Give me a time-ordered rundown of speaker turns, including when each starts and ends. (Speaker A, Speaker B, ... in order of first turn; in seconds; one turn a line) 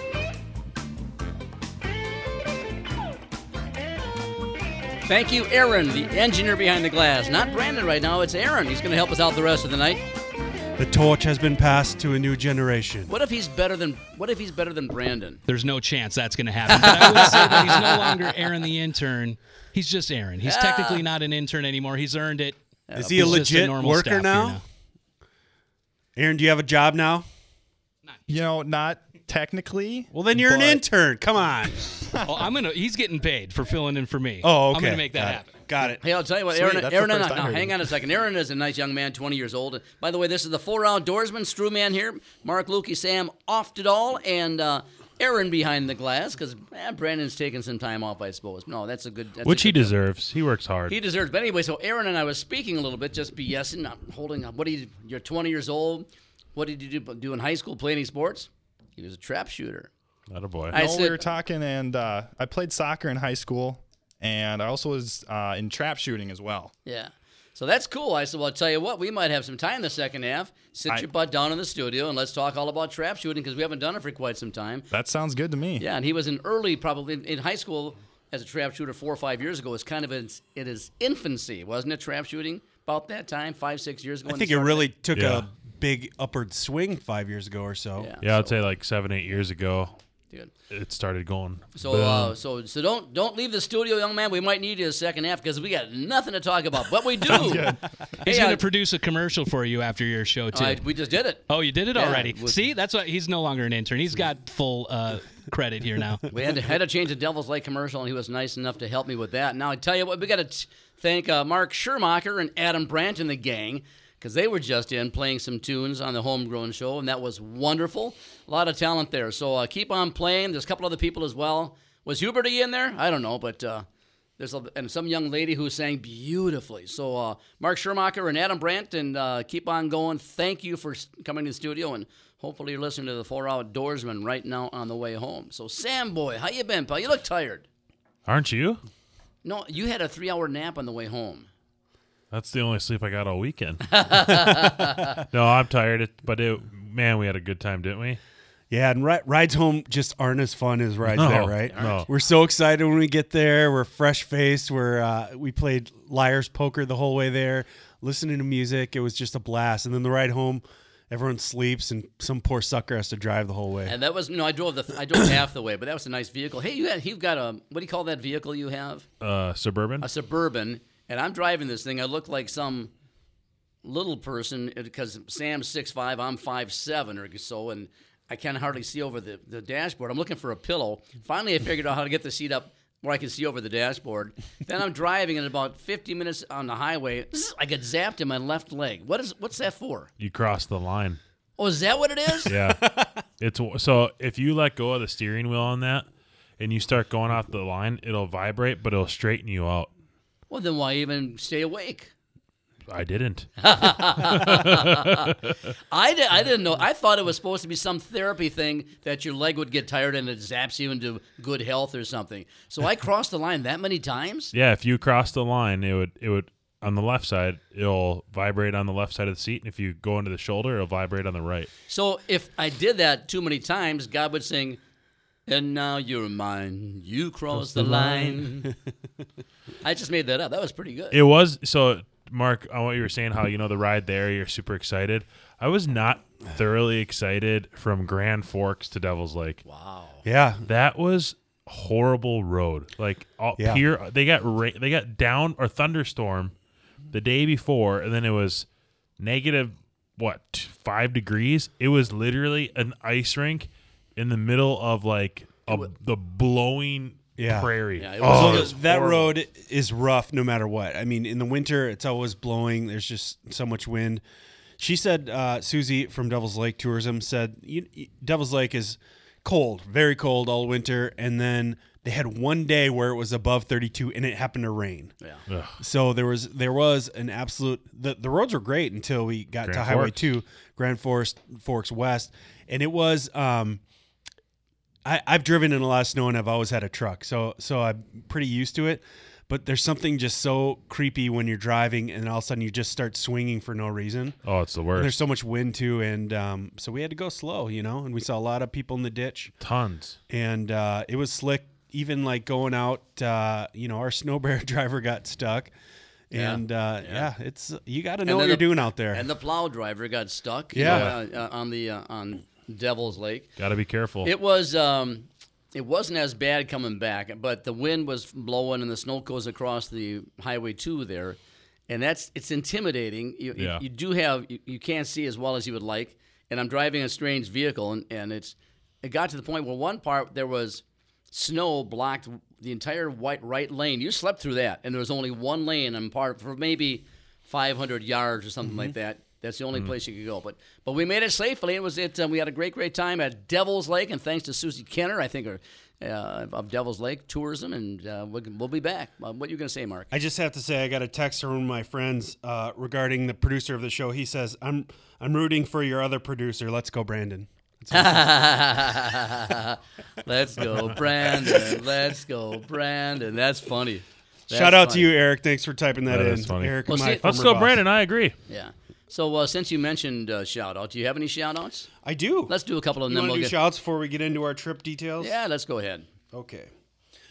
Speaker A: 5.0-10.0
Speaker B: 10.8-13.1
Speaker A: 13.1-15.4
Speaker C: 15.5-24.6
Speaker A: 16.7-18.2
Speaker A: 20.4-21.0
Speaker A: 22.9-23.4
Speaker B: 23.0-24.6
Speaker B: 26.1-27.2
Speaker D: 28.3-30.1
Speaker B: 30.1-32.1
Speaker C: 30.3-30.8
Speaker C: 32.2-35.6
Speaker B: 34.4-36.0
Speaker A: 36.0-49.9
Speaker D: 36.5-37.9
Speaker E: 49.4-51.0
Speaker A: 50.9-59.9
Speaker E: 60.3-60.8
Speaker A: 60.7-61.2
Speaker D: 60.7-66.7
Speaker A: 66.8-74.9
Speaker D: 74.9-75.8
Speaker A: 75.8-84.9
Speaker B: 84.3-88.1
Speaker E: 85.1-85.5
Speaker A: 88.0-88.7
Speaker E: 88.2-90.0
Speaker E: 90.7-92.3
Speaker A: 91.8-98.6
Speaker C: 97.3-100.8
Speaker A: 100.5-102.6
Speaker C: 101.5-106.2
Speaker A: 106.3-123.8
Speaker A: 124.4-137.7
Speaker E: 138.2-138.8
Speaker A: 139.4-141.5
Speaker E: 142.3-148.2
Speaker A: 143.9-145.1
Speaker B: 148.7-163.9
Speaker E: 151.1-152.1
Speaker A: 151.7-152.0
Speaker A: 163.8-169.1
Speaker E: 169.2-170.1
Speaker A: 170.0-172.9
Speaker A: 173.8-190.1
Speaker E: 190.2-191.2
Speaker A: 191.6-192.5
Speaker E: 192.5-196.1
Speaker B: 192.5-193.1
Speaker E: 196.6-199.9
Speaker A: 200.5-202.1
Speaker E: 202.9-205.0
Speaker A: 203.6-205.3
Speaker A: 205.9-214.5
Speaker E: 214.5-221.7
Speaker A: 221.9-224.8
Speaker A: 225.5-228.7
Speaker B: 227.8-228.4
Speaker A: 229.8-231.2
Speaker E: 231.1-239.6
Speaker A: 239.7-240.2
Speaker B: 240.2-240.7
Speaker E: 240.7-246.5
Speaker E: 247.1-248.7
Speaker E: 249.2-258.7
Speaker B: 257.4-264.2
Speaker A: 258.0-259.3
Speaker B: 264.8-275.1
Speaker E: 275.5-275.8
Speaker B: 275.8-283.8
Speaker E: 279.6-280.3
Speaker B: 285.0-294.4
Speaker E: 294.4-295.2
Speaker B: 294.9-299.5
Speaker E: 299.6-300.2
Speaker B: 300.3-305.7
Speaker B: 306.3-309.2
Speaker A: 306.3-307.3
Speaker A: 308.2-313.5
Speaker B: 310.7-311.2
Speaker E: 310.8-311.1
Speaker E: 313.6-314.3
Speaker A: 314.2-321.4
Speaker A: 321.9-350.1
Speaker B: 350.1-358.3
Speaker A: 357.9-365.1
Speaker B: 364.5-367.8
Speaker E: 366.1-368.3
Speaker A: 366.9-367.2
Speaker A: 368.5-371.9
Speaker B: 372.0-372.5
Speaker A: 372.5-373.5
Speaker B: 373.1-375.3
Speaker A: 375.2-376.1
Speaker B: 376.3-376.7